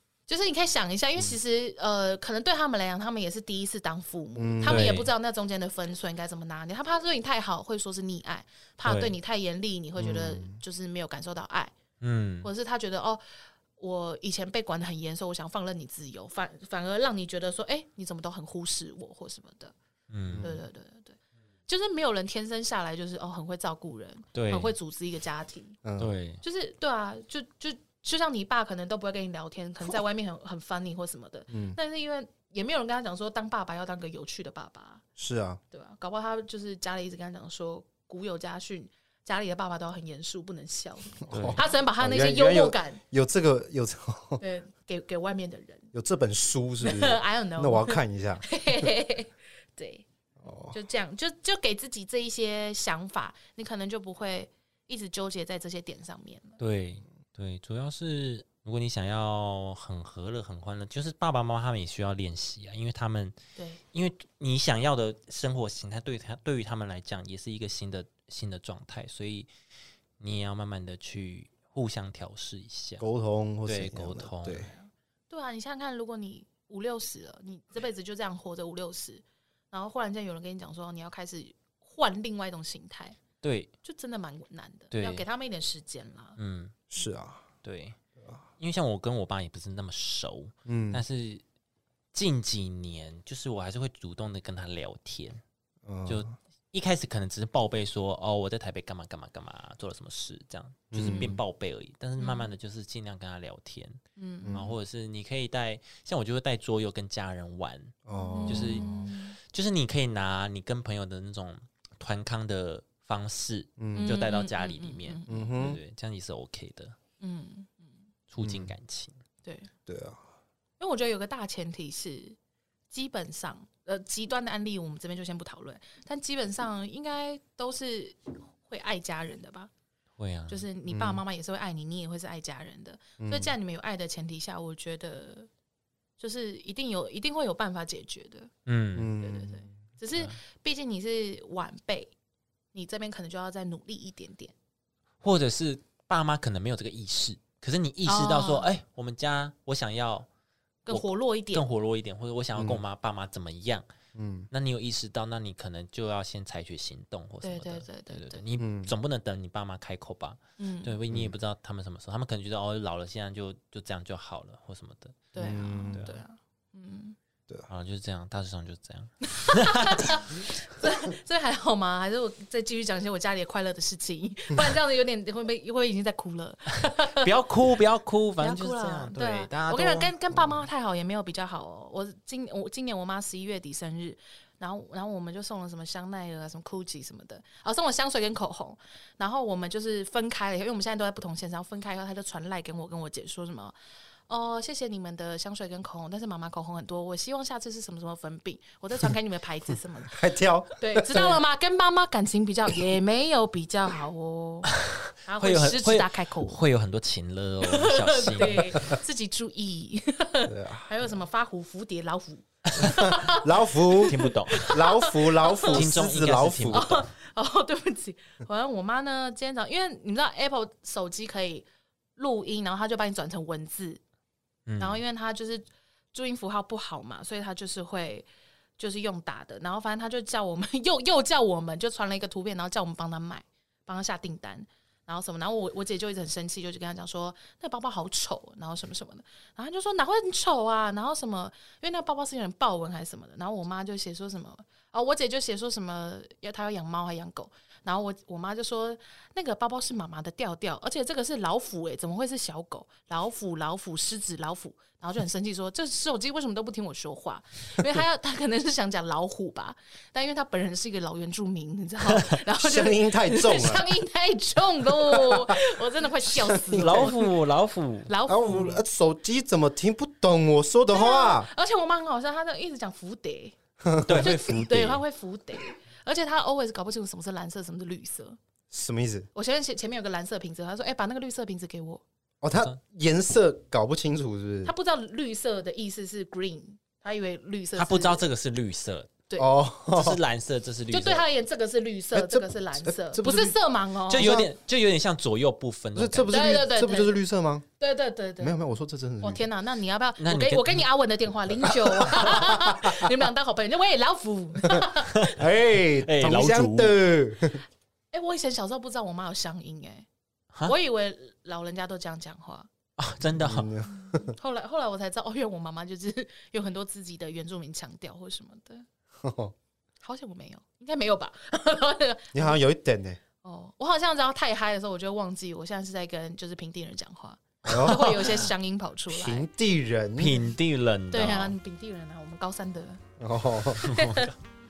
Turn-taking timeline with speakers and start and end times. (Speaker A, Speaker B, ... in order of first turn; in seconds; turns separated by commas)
Speaker A: 0.3-11.8, Speaker B: 4.4-5.0, Speaker C: 4.7-5.1, Speaker C: 8.8-9.2, Speaker B: 10.0-10.6, Speaker C: 12.0-12.5, Speaker A: 12.4-13.2, Speaker A: 13.8-19.8, Speaker C: 20.1-20.5, Speaker B: 20.3-20.6, Speaker A: 20.4-25.8, Speaker C: 24.3-24.7, Speaker B: 25.8-26.1, Speaker C: 26.0-26.4, Speaker A: 26.4-35.0, Speaker B: 31.5-31.8, Speaker B: 35.2-35.6, Speaker A: 35.7-43.0, Speaker B: 41.3-44.4, Speaker C: 41.3-41.6, Speaker A: 44.4-45.9, Speaker B: 45.9-48.9, Speaker A: 46.8-50.1, Speaker B: 50.4-50.8, Speaker A: 50.7-56.6, Speaker C: 56.6-63.4, Speaker A: 63.6-63.8, Speaker C: 63.9-69.5, Speaker C: 70.2-73.1, Speaker B: 73.0-74.7, Speaker C: 73.7-74.7, Speaker A: 74.7-83.2, Speaker C: 83.4-83.7, Speaker A: 83.8-86.4, Speaker C: 84.9-85.2, Speaker C: 86.4-86.7, Speaker B: 86.9-87.4, Speaker C: 87.6-88.0, Speaker C: 88.6-91.4, Speaker B: 90.7-91.0, Speaker C: 92.1-95.4, Speaker B: 95.8-96.3, Speaker C: 96.1-108.0, Speaker B: 100.9-101.4, Speaker A: 101.0-101.4, Speaker A: 102.2-102.5, Speaker A: 104.2-104.7, Speaker B: 104.4-104.7, Speaker B: 108.1-109.1, Speaker A: 108.2-109.4, Speaker C: 108.5-117.0, Speaker B: 113.8-114.2, Speaker A: 113.9-115.5, Speaker B: 115.3-115.8, Speaker A: 117.2-117.9, Speaker C: 118.3-119.2, Speaker B: 118.4-118.7, Speaker A: 119.4-119.7, Speaker B: 119.9-120.2, Speaker A: 120.8-122.4, Speaker A: 122.9-129.7, Speaker C: 130.2-130.7, Speaker A: 130.5-135.5, Speaker B: 130.9-131.2, Speaker B: 133.2-133.5, Speaker A: 136.2-138.5, Speaker C: 138.7-139.1, Speaker B: 139.0-139.7, Speaker A: 139.2-142.1, Speaker A: 142.7-144.6, Speaker C: 145.2-150.3, Speaker A: 148.1-148.7, Speaker A: 150.9-151.7, Speaker C: 150.9-153.9, Speaker B: 152.6-152.8, Speaker B: 154.2-154.5, Speaker C: 154.5-165.3, Speaker A: 157.4-158.4, Speaker B: 158.6-158.9, Speaker A: 160.6-160.9, Speaker B: 161.1-161.4, Speaker A: 165.3-167.2, Speaker B: 165.4-166.0, Speaker C: 165.9-166.2, Speaker C: 167.7-170.1, Speaker A: 169.2-177.3, Speaker C: 177.2-180.1, Speaker A: 178.4-193.8, Speaker A: 194.3-200.2, Speaker B: 200.1-201.4, Speaker A: 200.8-204.7, Speaker C: 204.9-208.8, Speaker A: 205.2-206.6, Speaker A: 207.7-215.8, Speaker B: 208.5-209.0, Speaker B: 210.5-211.0, Speaker B: 212.8-216.9, Speaker C: 214.1-214.8, Speaker C: 215.7-217.0, Speaker A: 216.7-224.0, Speaker C: 224.7-225.0, Speaker A: 224.8-228.3, Speaker A: 228.8-267.2, Speaker B: 262.6-263.9, Speaker B: 264.9-265.6, Speaker B: 266.2-267.2, Speaker C: 266.8-268.1, Speaker A: 268.1-268.8, Speaker B: 268.3-271.5, Speaker A: 270.9-273.6, Speaker B: 273.8-274.4, Speaker C: 274.1-275.0, Speaker A: 274.2-278.4, Speaker B: 278.7-279.3, Speaker A: 279.4-282.0, Speaker B: 282.4-284.7, Speaker A: 284.6-288.2, Speaker C: 287.8-289.1, Speaker A: 289.3-289.6, Speaker B: 289.4-290.2, Speaker C: 289.9-291.3, Speaker A: 290.9-294.4, Speaker B: 292.1-293.6, Speaker C: 294.1-296.6, Speaker B: 294.1-294.5, Speaker B: 295.9-297.6, Speaker A: 296.3-297.2, Speaker A: 297.8-298.6, Speaker B: 298.4-299.5, Speaker A: 299.2-305.4, Speaker C: 300.2-300.9, Speaker B: 301.6-303.1, Speaker B: 305.3-307.6, Speaker C: 306.1-307.0, Speaker A: 308.1-310.1, Speaker A: 310.6-312.7, Speaker C: 313.0-313.7, Speaker B: 313.3-314.4, Speaker A: 313.9-318.9, Speaker B: 319.2-319.5, Speaker A: 320.0-322.6, Speaker B: 322.3-323.2, Speaker A: 323.4-329.5, Speaker B: 327.6-328.4, Speaker C: 327.7-328.3, Speaker B: 329.1-330.4, Speaker C: 330.2-331.6, Speaker A: 331.1-333.0, Speaker B: 333.2-333.9, Speaker A: 333.8-334.3, Speaker C: 333.9-334.3